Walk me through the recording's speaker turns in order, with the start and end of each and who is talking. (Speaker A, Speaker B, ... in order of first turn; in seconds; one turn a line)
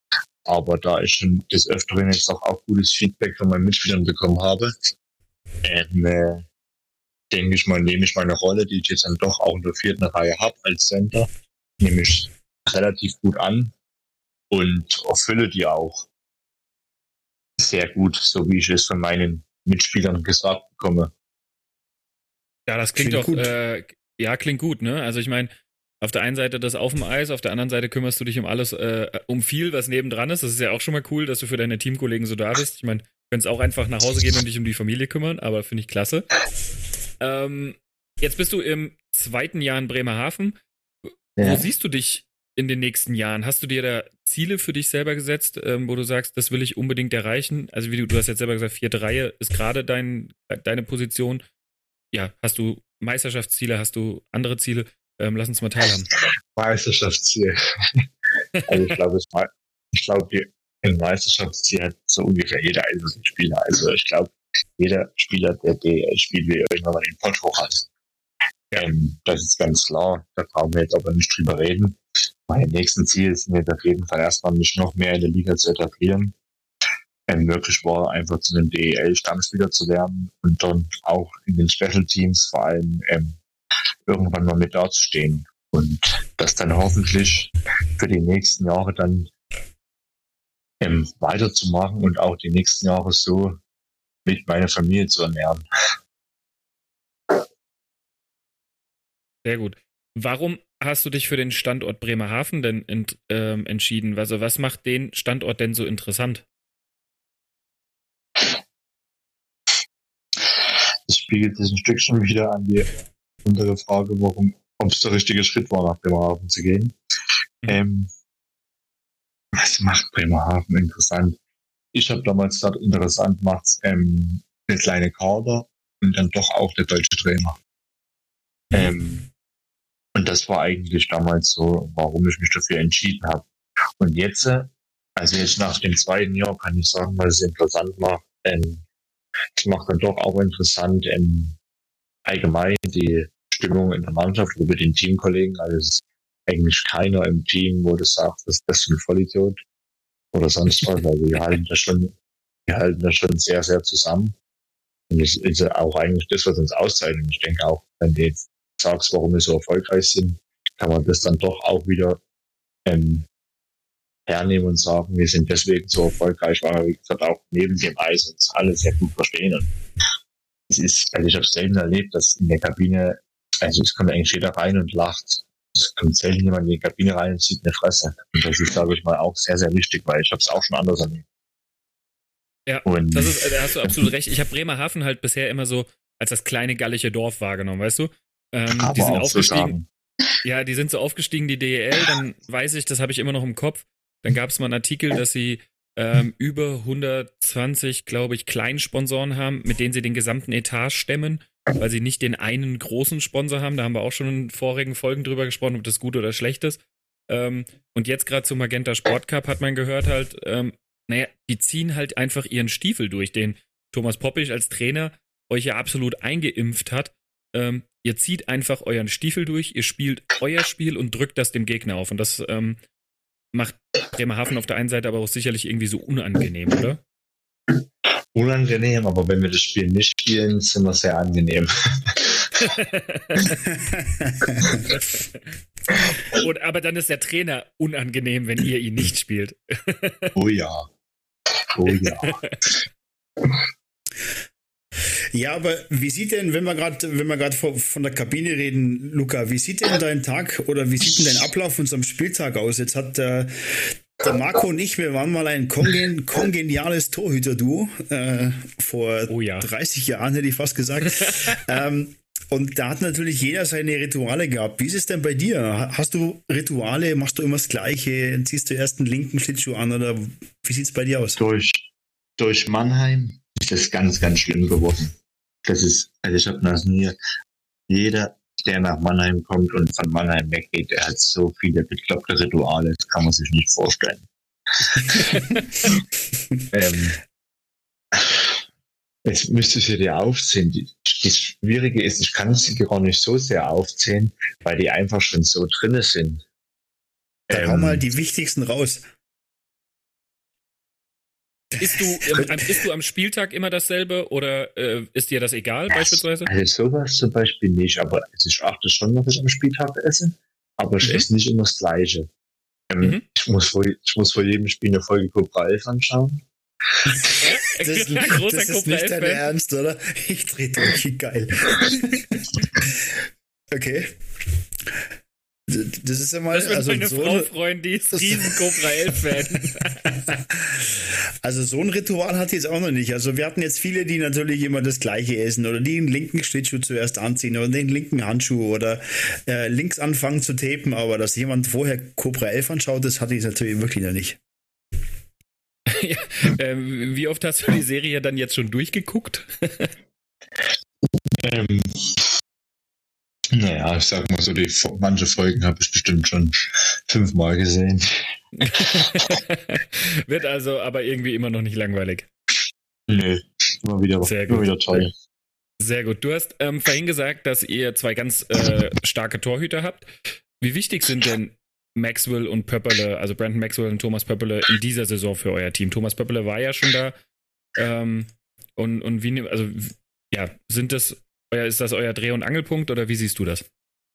Speaker A: 0.5-4.9
Speaker A: 5.6-6.5
Speaker A: 7.3-11.3
Speaker A: 11.8-13.7
Speaker A: 14.5-16.1
Speaker A: 17.6-21.1
Speaker B: 22.7-25.5
Speaker C: 23.0-23.5
Speaker B: 26.0-36.3
Speaker B: 37.2-40.6
Speaker A: 41.4-41.7
Speaker B: 41.4-51.4
Speaker B: 52.1-56.1
Speaker A: 56.5-58.0
Speaker A: 58.6-67.9
Speaker A: 68.7-76.4
Speaker A: 77.3-83.4
Speaker A: 84.1-89.3
Speaker A: 90.8-93.6
Speaker A: 94.3-95.7
Speaker B: 99.5-106.4
Speaker A: 111.1-112.9
Speaker A: 113.5-117.0
Speaker A: 117.7-118.1
Speaker A: 119.5-121.4
Speaker A: 121.9-127.6
Speaker A: 128.7-129.3
Speaker A: 130.2-133.4
Speaker A: 134.0-138.8
Speaker A: 139.6-141.6
Speaker A: 142.3-149.6
Speaker A: 150.3-152.1
Speaker A: 152.7-154.4
Speaker A: 155.1-162.2
Speaker A: 162.9-163.3
Speaker A: 164.3-169.7
Speaker A: 170.7-181.3
Speaker B: 182.7-189.8
Speaker A: 182.8-184.1
Speaker A: 188.7-189.9
Speaker B: 190.4-222.8
Speaker B: 223.5-227.0
Speaker A: 228.3-232.5
Speaker B: 232.6-233.6
Speaker C: 233.9-234.8
Speaker B: 234.9-235.2
Speaker B: 235.9-240.3
Speaker A: 240.3-240.9
Speaker A: 241.7-242.4
Speaker B: 242.2-242.6
Speaker C: 245.3-271.4
Speaker B: 259.3-259.7
Speaker A: 271.4-277.2
Speaker A: 277.9-284.3
Speaker A: 284.9-285.4
Speaker A: 286.7-287.2
Speaker A: 288.1-288.5
Speaker A: 289.2-296.4
Speaker A: 297.5-298.1
Speaker C: 297.5-299.1
Speaker B: 301.8-306.5
Speaker C: 301.9-302.7
Speaker A: 305.9-312.3
Speaker A: 312.9-316.4
Speaker B: 317.4-319.4
Speaker C: 317.7-323.2
Speaker C: 323.7-324.1
Speaker C: 325.7-327.5
Speaker B: 326.5-330.2
Speaker C: 328.1-344.4
Speaker B: 345.9-349.9
Speaker A: 351.4-352.2
Speaker A: 353.5-356.6
Speaker A: 357.1-358.1
Speaker B: 358.6-362.3
Speaker A: 358.8-359.1
Speaker A: 363.1-365.1
Speaker B: 364.2-364.7
Speaker B: 365.8-370.1
Speaker B: 370.6-377.1
Speaker B: 377.8-383.6